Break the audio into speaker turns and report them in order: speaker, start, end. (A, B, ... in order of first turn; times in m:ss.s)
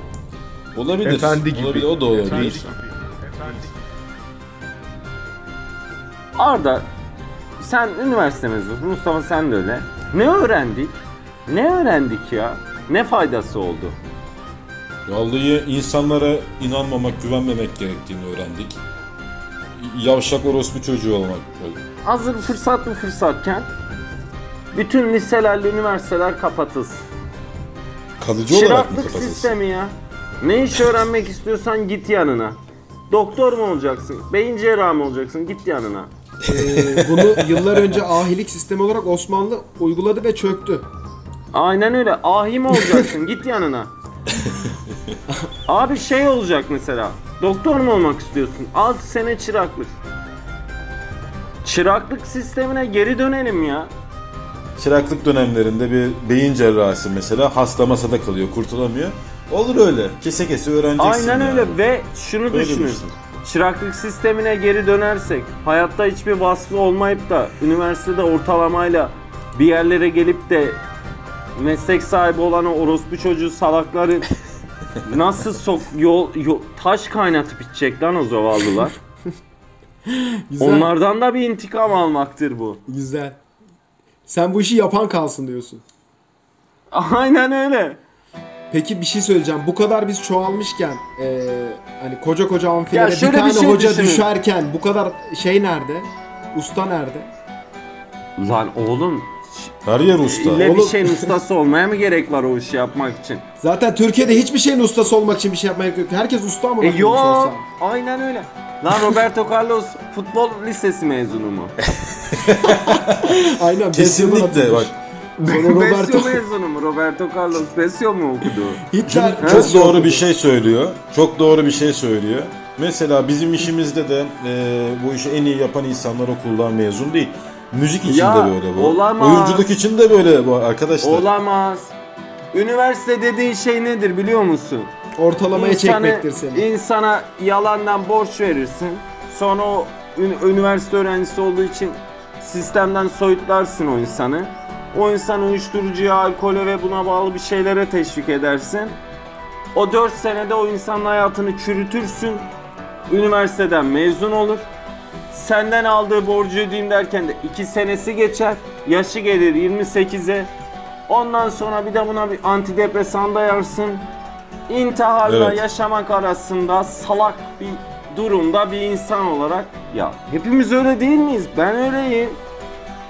0:00.7-0:02.8 A
0:01.0-0:02.5 B
0:06.4-0:06.9 C
0:07.6-0:14.0 C
0:15.0-0:18.8 A
0:19.8-0:21.8 A
0:22.0-0:23.7 C
0:24.7-0:27.0 C
0:28.2-0:29.5 A
0:28.5-0:32.6 C
0:33.1-0:36.1 C
0:36.4-0:40.9 B
0:36.5-0:38.0 A
0:41.5-0:43.9 C
0:44.4-0:45.0 A
0:45.7-0:49.9 C
0:51.6-0:53.9 C
0:54.8-1:01.8 A
1:01.0-1:10.8 C
1:02.5-1:03.1 A
1:11.6-1:14.3 C
1:15.0-1:18.9 C
1:20.1-1:20.9 B
1:20.6-1:22.8 C
1:22.9-1:23.4 B
1:24.2-1:25.8 B
1:26.9-1:28.0 C
1:28.7-1:37.3 B
1:32.9-1:34.3 C
1:38.4-1:39.7 C
1:39.8-1:40.7 A
1:40.2-1:43.4 C
1:40.5-1:41.3 B
1:43.6-1:47.6 B
1:46.8-1:51.7 C
1:51.9-1:54.9 A
1:52.6-1:54.9 B
1:55.4-1:58.8 C
1:55.4-1:56.4 B
1:58.9-2:00.3 B
1:59.0-2:11.3 A
1:59.4-1:59.8 C
2:08.0-2:09.6 C
2:11.0-2:11.9 C
2:12.5-2:14.9 C
2:15.2-2:16.6 B
2:15.5-2:29.0 C
2:29.7-2:32.5 C
2:33.1-2:34.7 C
2:35.3-2:40.5 C
2:41.1-2:44.1 C
2:44.7-2:52.4 C
2:45.2-2:45.6 A